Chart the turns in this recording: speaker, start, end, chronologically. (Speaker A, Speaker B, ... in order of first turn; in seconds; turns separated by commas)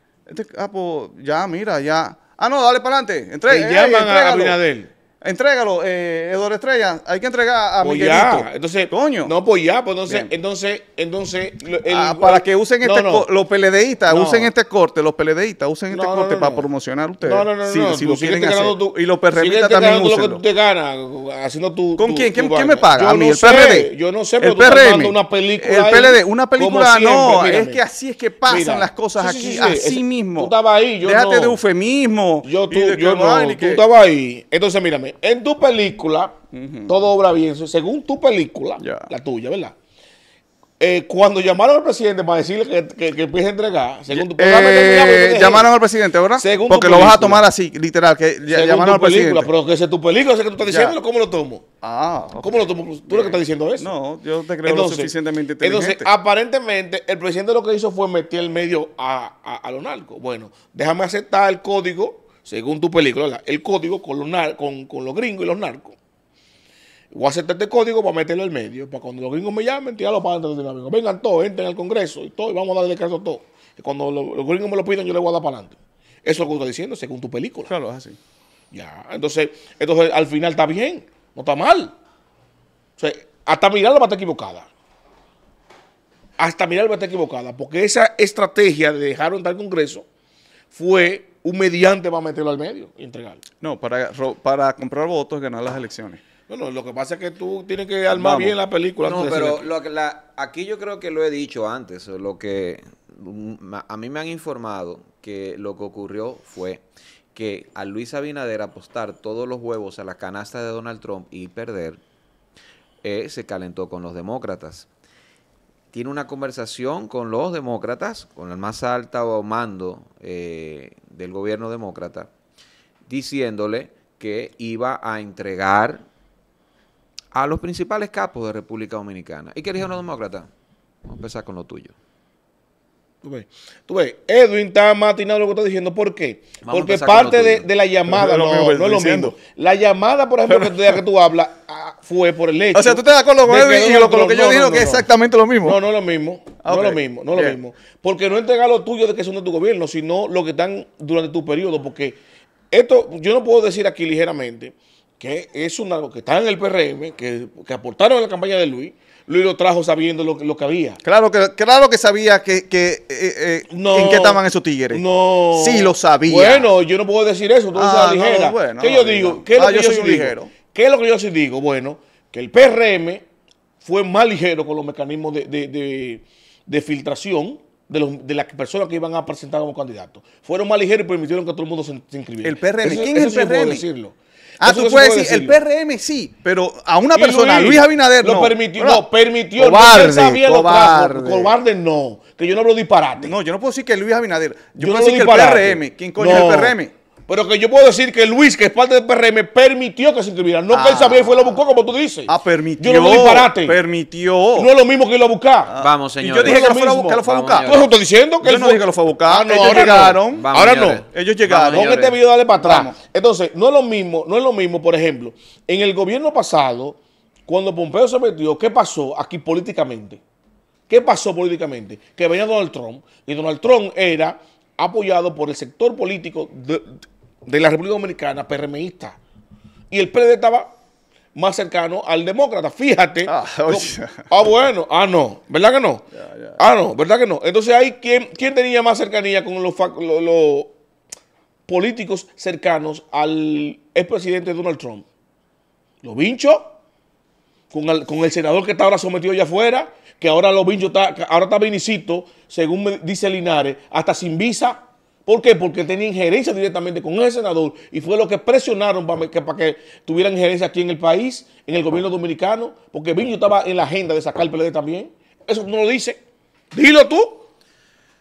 Speaker A: 0.3-4.6, Speaker B: 3.5-4.9, Speaker A: 5.2-9.3, Speaker B: 7.8-13.3, Speaker A: 10.1-10.3, Speaker A: 11.8-20.4, Speaker B: 14.1-14.5, Speaker B: 15.9-16.7, Speaker B: 17.2-27.8, Speaker A: 22.0-33.8, Speaker B: 28.4-31.6, Speaker B: 32.4-39.7, Speaker A: 36.5-37.0, Speaker A: 38.8-39.1, Speaker B: 40.8-45.7, Speaker A: 44.1-49.5, Speaker B: 46.3-47.5, Speaker B: 48.5-51.6, Speaker A: 50.6-51.0, Speaker A: 51.8-56.1, Speaker B: 52.4-53.9, Speaker B: 54.6-66.0, Speaker B: 67.1-77.7, Speaker A: 77.7-78.2, Speaker B: 78.7-81.9, Speaker B: 83.0-84.7, Speaker B: 86.4-90.0, Speaker B: 90.7-93.4, Speaker A: 93.6-96.2, Speaker B: 96.5-99.7, Speaker A: 98.1-98.6, Speaker C: 99.0-112.0, Speaker C: 113.0-114.9, Speaker C: 115.9-122.3, Speaker C: 123.1-126.0, Speaker C: 127.3-130.5, Speaker C: 131.0-131.9, Speaker B: 133.2-145.1, Speaker C: 136.6-137.7, Speaker A: 138.1-139.3, Speaker A: 140.5-141.0, Speaker A: 142.7-145.8, Speaker B: 145.6-152.2, Speaker A: 146.6-147.6, Speaker B: 152.7-161.0, Speaker A: 161.0-166.7, Speaker B: 163.7-173.2, Speaker A: 167.7-170.5, Speaker B: 173.8-185.6, Speaker A: 182.4-183.8, Speaker A: 184.6-189.0, Speaker B: 187.1-193.3, Speaker A: 189.6-191.6, Speaker A: 193.2-196.9, Speaker B: 194.8-203.8, Speaker A: 200.7-201.6, Speaker A: 202.3-204.7, Speaker B: 204.6-205.7, Speaker A: 205.7-207.8, Speaker C: 205.7-206.7, Speaker B: 206.4-211.1, Speaker C: 207.2-207.9, Speaker A: 208.4-210.5, Speaker C: 210.2-212.2, Speaker A: 211.1-211.8, Speaker B: 211.6-220.2, Speaker A: 212.6-212.9, Speaker B: 220.9-229.2, Speaker B: 229.9-230.8, Speaker B: 231.3-236.1, Speaker A: 233.2-234.3, Speaker A: 236.1-236.6, Speaker B: 236.6-240.7, Speaker B: 241.7-245.0, Speaker B: 246.0-246.8, Speaker B: 247.7-266.2, Speaker B: 266.7-267.5